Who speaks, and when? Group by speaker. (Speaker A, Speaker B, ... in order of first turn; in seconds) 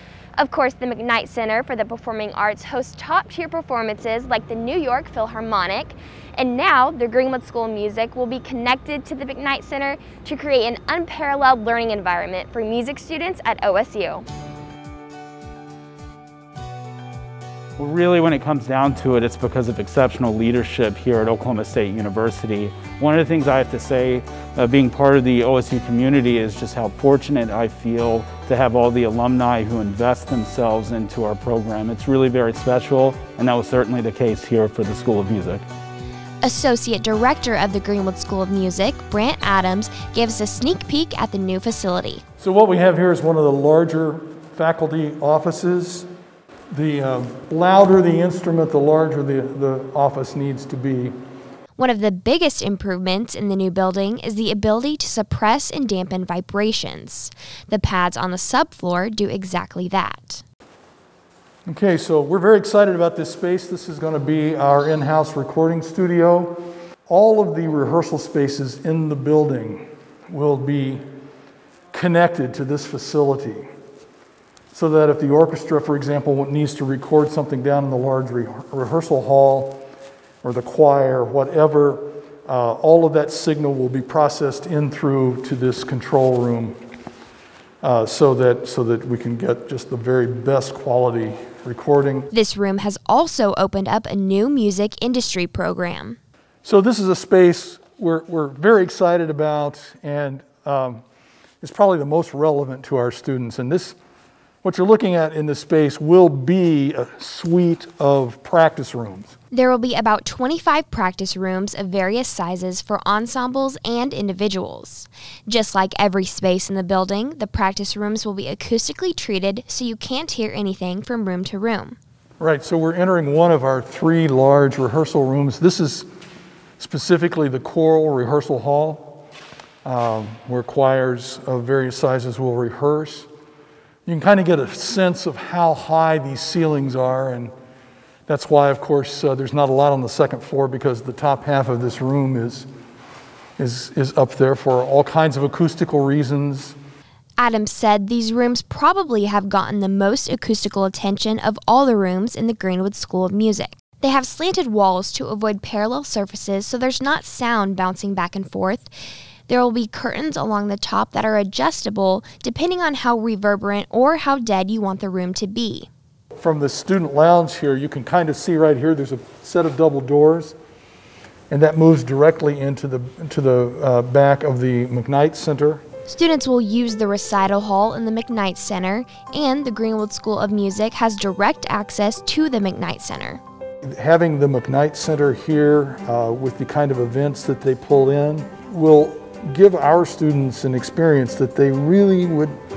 Speaker A: 0.4-14.3, 36.4-42.2, 51.8-60.4, 92.3-96.2, 109.5-122.0, 147.4-158.9, 159.5-165.9, 176.1-183.4
Speaker B: 17.8-35.6
Speaker C: 42.4-46.1, 46.7-51.1, 61.7-71.0, 71.9-73.7, 74.7-79.8, 80.4-86.8, 87.8-92.3, 96.6-101.0, 101.6-104.0, 104.6-109.3, 122.4-126.1, 126.8-129.2, 129.8-133.3, 134.1-137.5, 138.3-142.7, 143.6-146.8, 166.4-170.6, 171.5-175.8, 183.8-192.6